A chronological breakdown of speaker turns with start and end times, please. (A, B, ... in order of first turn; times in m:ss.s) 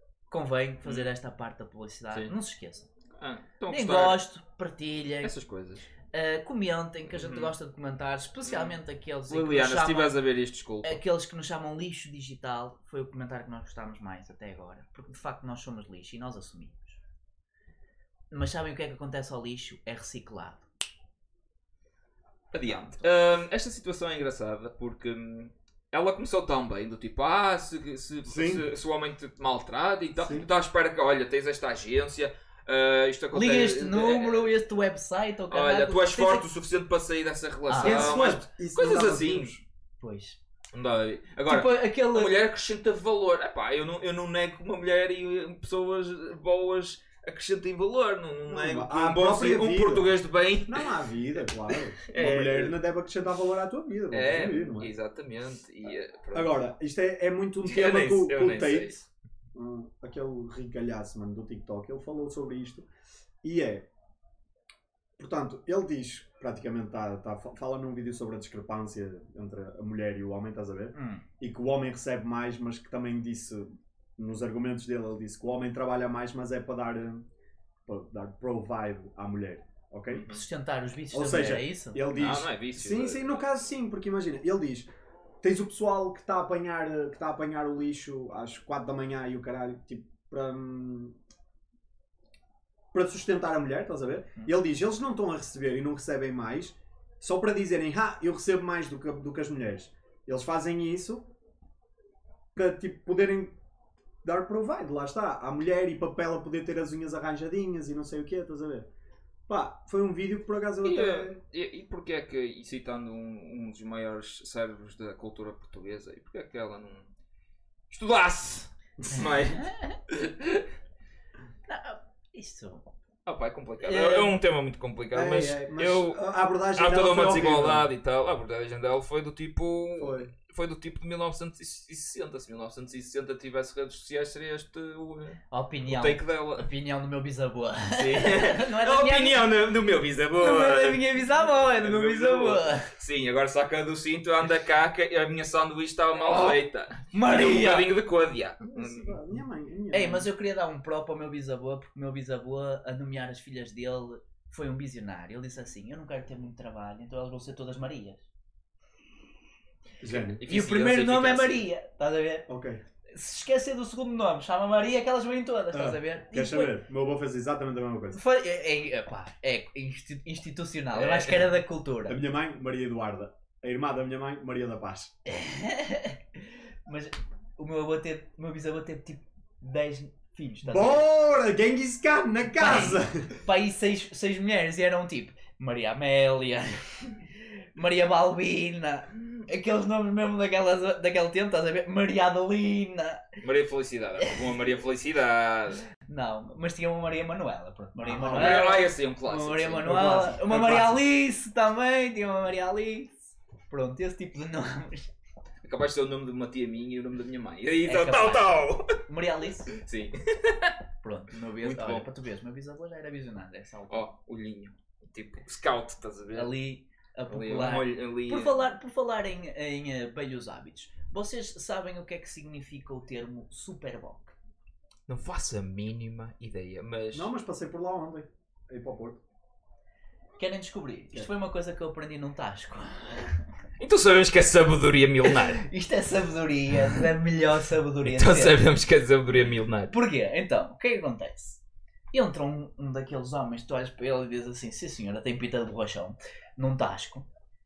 0:00.3-0:02.9 A
0:03.2-0:04.2 B
0:03.7-0:05.3 A
0:05.2-0:05.8 B
0:06.1-0:10.1 A
0:07.1-0:07.5 B
0:08.4-0:08.7 B
0:09.3-0:11.0 B
0:10.8-0:17.0 A
0:18.3-0:20.6 A
0:22.5-0:34.5 B
0:28.2-0:28.6 C
0:30.2-0:30.5 C
0:33.3-0:36.5 A
0:35.5-0:39.6 B
0:37.7-0:38.1 A
0:37.8-0:39.6 C
0:40.0-0:40.4 A
0:40.7-0:50.9 B
0:41.5-0:42.4 A
0:48.5-0:50.1 C
0:50.7-0:54.9 C
0:52.1-0:52.8 B
0:54.1-0:56.7 B
0:56.3-0:59.0 C
0:57.6-0:59.0 B
0:59.5-1:02.9 C
1:03.4-1:03.9 C
1:05.2-1:17.2 C
1:10.9-1:11.2 A
1:17.8-1:20.2 C
1:20.1-1:20.4 B
1:20.3-1:22.0 A
1:21.1-1:24.9 C
1:22.1-1:23.4 B
1:25.4-1:31.2 C
1:32.9-1:41.3 C
1:42.5-1:43.6 C
1:44.2-1:48.9 C
1:49.5-1:51.4 C
1:50.8-1:57.1 B
1:57.9-2:00.6 B
1:59.5-2:00.0 A
2:01.6-2:02.9 A
2:03.2-2:06.2 B
2:03.8-2:04.3 A
2:05.1-2:07.9 C
2:06.7-2:16.7 B
2:10.0-2:10.3 C
2:15.5-2:19.5 A
2:18.0-2:29.2 B
2:20.4-2:22.9 A
2:26.1-2:26.6 A
2:27.1-2:27.9 A
2:28.7-2:30.3 C
2:29.9-2:38.2 A
2:40.0-2:40.4 C
2:40.1-2:41.6 B
2:40.5-2:42.5 A
2:42.5-2:42.8 C
2:43.1-2:46.8 A
2:45.7-2:48.2 C
2:48.1-2:52.2 A
2:50.9-2:51.6 B
2:52.1-2:55.1 C
2:55.2-2:56.2 A
2:56.8-3:01.1 A
3:00.6-3:03.3 C
3:02.6-3:07.2 A
3:07.8-3:13.2 A
3:13.4-3:15.8 B
3:16.1-3:25.1 A
3:18.0-3:18.8 C
3:18.2-3:19.9 B
3:19.8-3:21.0 C
3:25.6-3:29.0 B
3:27.8-3:29.7 A
3:29.7-3:30.7 B
3:31.0-3:34.0 A
3:31.6-3:32.0 B
3:33.9-3:36.6 B
3:36.3-3:44.3 A
3:37.3-3:38.6 B
3:45.1-3:47.3 B
3:47.1-3:49.2 C
3:50.4-3:53.4 A
3:53.8-3:55.6 B
3:55.2-3:58.6 A
3:58.0-3:59.9 B
3:59.9-4:01.6 A
4:02.1-4:07.2 A